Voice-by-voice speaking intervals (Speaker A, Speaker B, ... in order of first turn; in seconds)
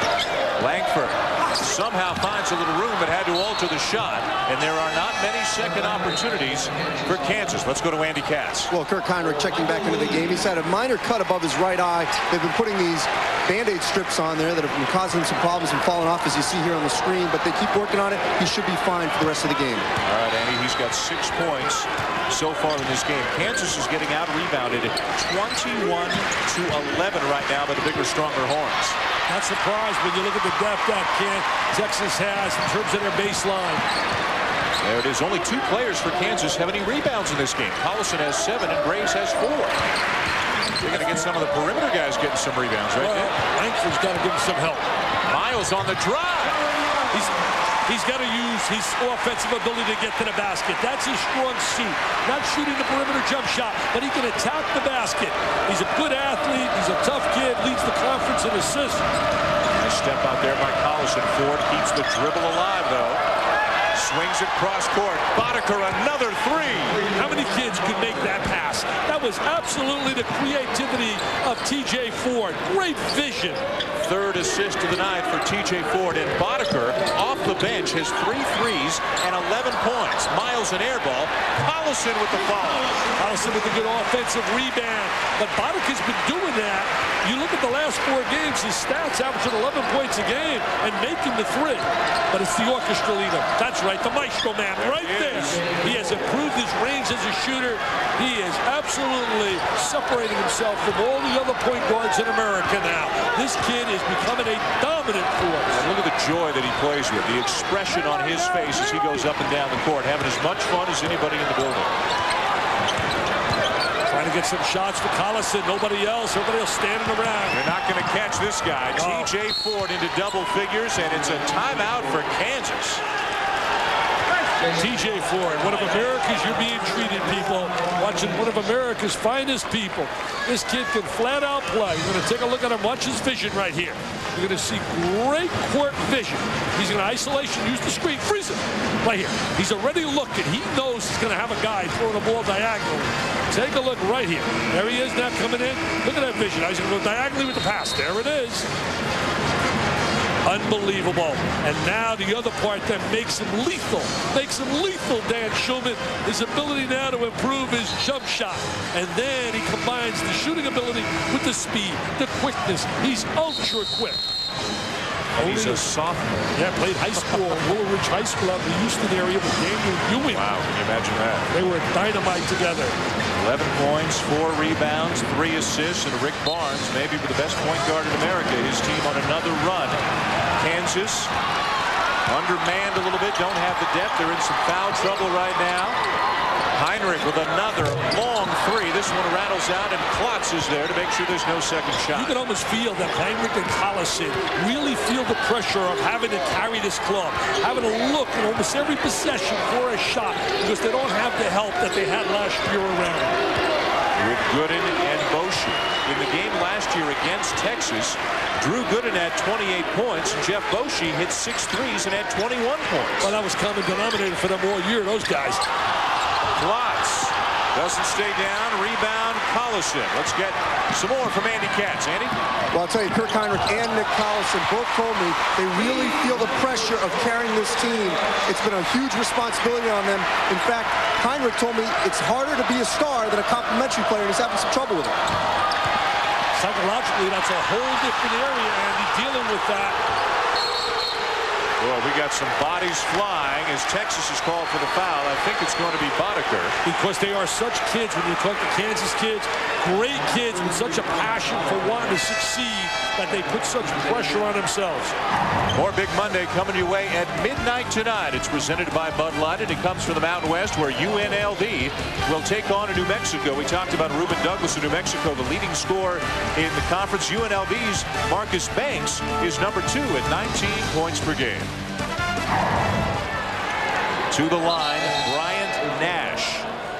Speaker A: 0.6-8.7, 20.0-29.0, 34.8-39.8, 40.8-43.3, 45.2-46.5, 59.8-63.2, 63.9-67.0, 74.0-83.0, 94.8-95.8, 105.7-111.9, 117.5-123.0, 165.3-166.5, 167.2-167.6, 170.3-171.5, 173.3-180.0, 180.6-181.3, 182.3-186.0, 186.7-192.3, 204.2-213.3, 216.6-222.3, 241.8-246.8, 255.7-271.7, 274.3-276.6
Speaker B: 8.7-19.9, 222.7-235.2
Speaker C: 29.3-33.9, 43.0-44.9, 47.1-59.0, 67.1-73.6, 83.2-105.8, 114.1-117.6, 119.0-119.3, 124.7-148.7, 150.4-164.2, 165.4-165.8, 166.5-170.4, 171.5-172.9, 192.1-203.4, 213.2-215.6, 236.5-240.0, 246.8-255.2